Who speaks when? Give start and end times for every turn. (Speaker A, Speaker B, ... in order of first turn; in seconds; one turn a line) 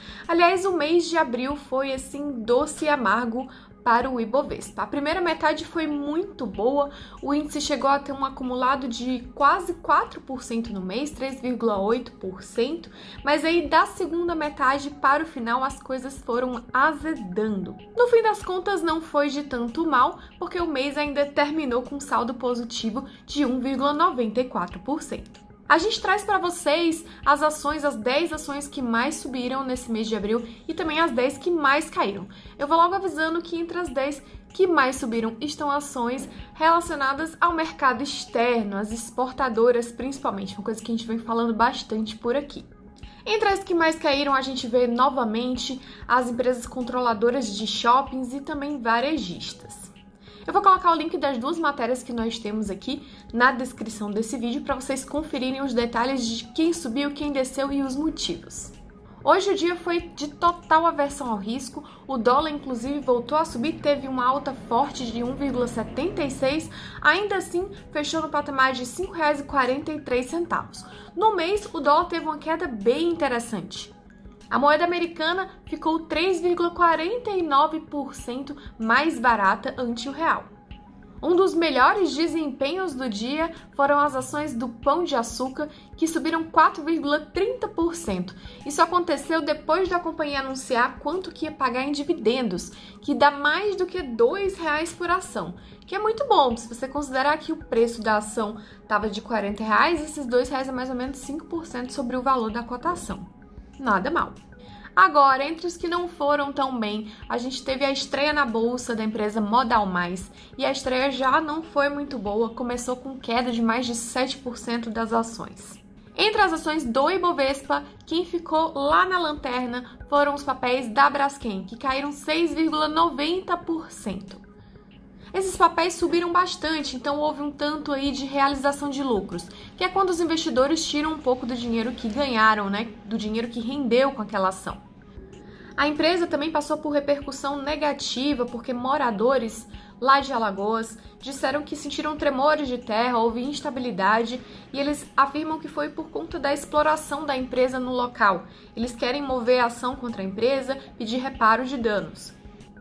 Speaker A: 0.3-42.7
Speaker A: 43.2-49.9
Speaker A: 50.5-73.9
Speaker A: 74.5-80.5
Speaker A: 81.2-104.4
Speaker A: 105.0-124.4
Speaker A: 125.3-134.8
Speaker A: 135.8-152.4